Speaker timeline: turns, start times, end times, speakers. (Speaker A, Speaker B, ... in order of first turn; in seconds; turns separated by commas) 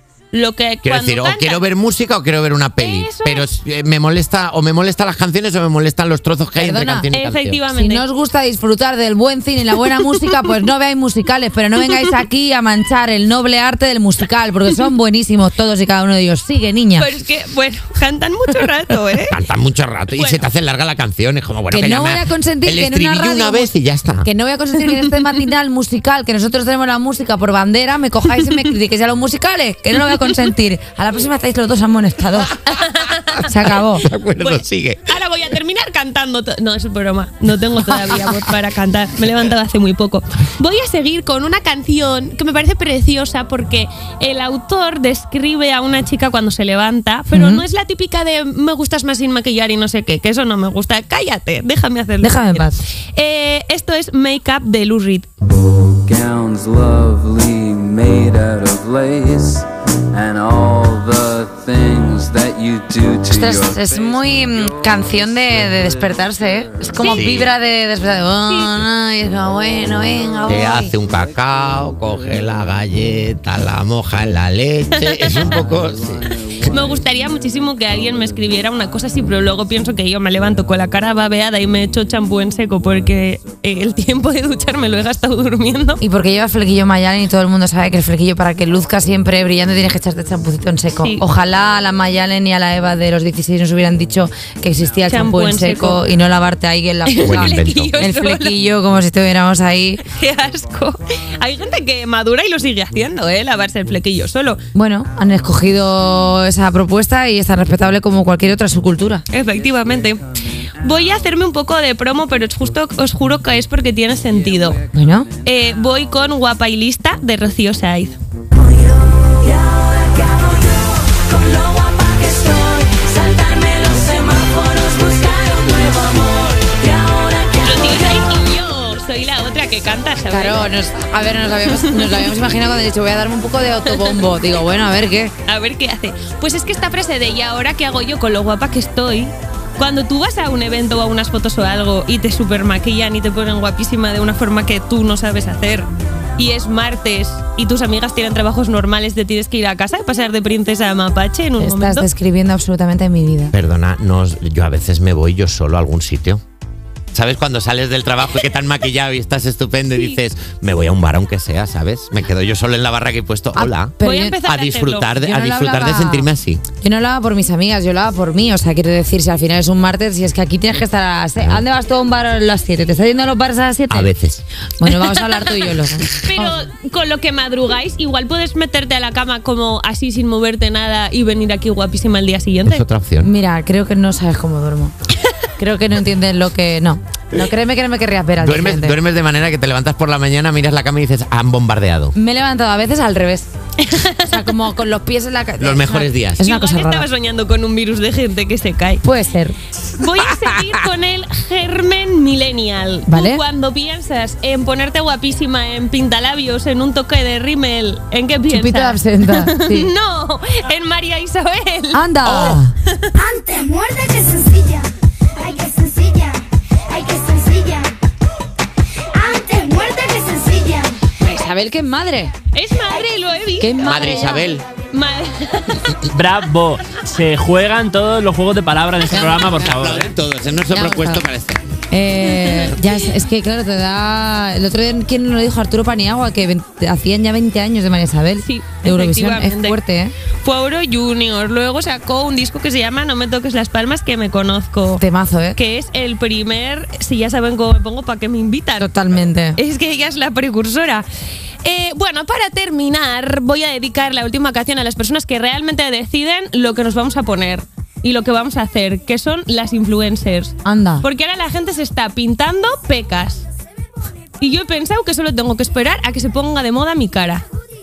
Speaker A: 0.3-1.6, Speaker B: 0.8-7.6, Speaker A: 2.8-3.5, Speaker C: 6.6-7.1, Speaker A: 7.1-8.1, Speaker C: 7.8-17.1, Speaker A: 17.0-19.4, Speaker B: 19.3-24.3, Speaker A: 20.1-20.5, Speaker C: 21.7-32.6, Speaker A: 32.7-33.4, Speaker C: 33.5-34.1, Speaker B: 33.9-35.1, Speaker A: 34.4-55.3, Speaker C: 37.8-38.2, Speaker C: 47.3-47.6, Speaker C: 52.2-52.8, Speaker D: 55.8-64.2, Speaker C: 63.3-70.9, Speaker A: 67.0-67.3, Speaker B: 67.1-67.5, Speaker A: 68.5-68.8, Speaker B: 70.5-76.4, Speaker A: 74.9-75.6, Speaker A: 76.2-86.0, Speaker C: 86.0-100.1, Speaker A: 95.1-96.0, Speaker A: 97.1-98.6, Speaker B: 97.2-97.9, Speaker A: 100.0-104.6, Speaker C: 104.7-109.2, Speaker A: 109.3-114.8, Speaker C: 114.9-115.3, Speaker A: 115.4-118.2, Speaker A: 122.0-126.1, Speaker A: 127.4-130.7, Speaker C: 130.3-135.3, Speaker A: 131.7-132.3, Speaker A: 135.5-145.9, Speaker A: 146.4-152.1, Speaker C: 151.6-153.5, Speaker B: 153.5-156.4, Speaker B: 157.1-166.6, Speaker C: 163.6-164.4, Speaker A: 164.0-165.1, Speaker C: 165.2-166.3, Speaker C: 166.8-174.1, Speaker B: 171.4-171.6, Speaker B: 173.9-174.4, Speaker C: 174.8-176.6, Speaker A: 176.1-182.8, Speaker B: 182.7-183.3, Speaker C: 183.2-184.9, Speaker C: 185.6-189.0, Speaker B: 188.4-192.2, Speaker C: 192.2-193.5, Speaker A: 193.8-194.5, Speaker C: 194.2-197.1, Speaker B: 195.6-196.4, Speaker A: 196.4-199.0, Speaker C: 199.0-199.6, Speaker A: 199.9-213.2, Speaker C: 203.1-203.4, Speaker C: 208.5-209.9, Speaker C: 211.9-212.7, Speaker E: 213.3-214.9, Speaker E: 215.5-215.8, Speaker A: 216.9-217.7, Speaker E: 217.1-217.9, Speaker E: 219.2-220.9, Speaker A: 219.4-220.1, Speaker C: 221.2-222.3, Speaker A: 222.5-226.0, Speaker C: 223.6-224.5, Speaker B: 223.8-224.7, Speaker F: 226.1-230.1, Speaker B: 229.1-231.6, Speaker C: 230.7-231.2, Speaker C: 231.9-240.1, Speaker A: 232.4-232.7, Speaker A: 238.4-239.8, Speaker A: 240.4-245.0, Speaker C: 245.0-245.6, Speaker A: 245.6-248.9, Speaker C: 248.8-249.6, Speaker A: 249.6-251.1, Speaker A: 251.7-263.5, Speaker C: 260.6-261.1, Speaker A: 264.4-267.4